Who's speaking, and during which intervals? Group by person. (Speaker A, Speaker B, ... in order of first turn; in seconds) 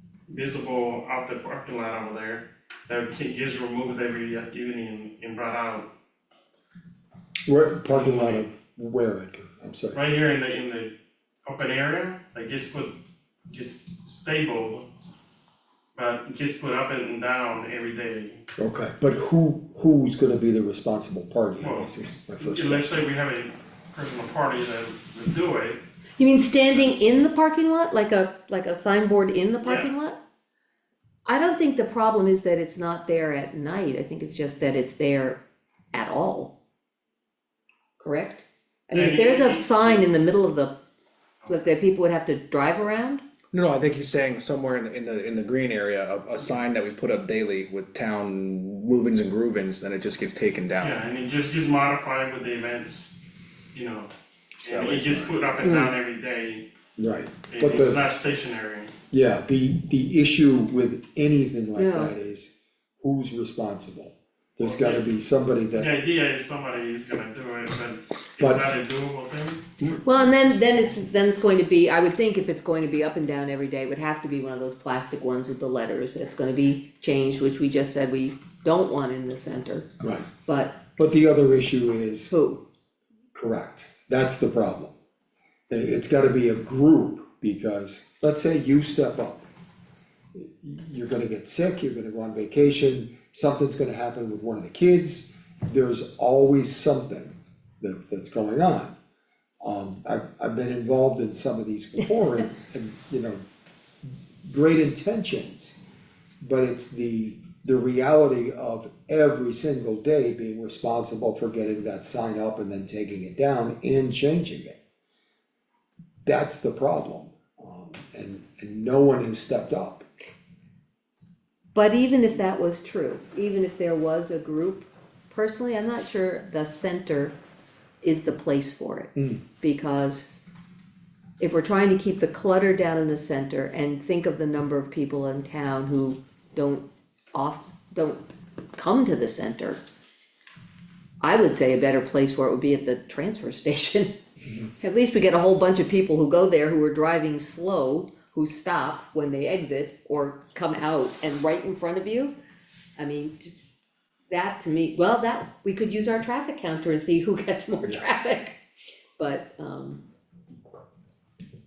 Speaker A: 0.3-5.9, 7.9-8.5, 9.9-10.9, 11.4-13.0, 13.5-14.9, 15.9-18.4, 21.6-25.8, 29.6-29.9, 38.9-40.0, 50.8-53.1, 53.7-54.1, 54.6-56.7, 57.5-58.9, 64.6-65.1, 65.7-69.7
Speaker B: 7.5-10.0, 18.6-23.0, 57.0-58.0, 59.1-65.9, 68.4-68.7, 80.0-80.3, 80.9-82.3, 83.3-84.9, 85.7-89.4, 90.3-98.9, 99.6-103.4, 104.1-105.8, 106.4-114.8, 116.2-120.0, 129.2-129.4
Speaker C: 26.2-30.2, 31.2-35.4, 35.9-36.5, 38.0-40.8, 41.5-43.2, 55.6-55.9, 61.8-62.1, 70.0-79.9, 80.4-80.8, 82.3-82.7, 121.8-127.3, 128.0-130.4, 131.4-139.8, 141.2-144.2, 144.8-152.3, 153.0-153.5, 154.3-158.6, 159.2-160.0
Speaker D: 43.5-51.0, 54.6-55.4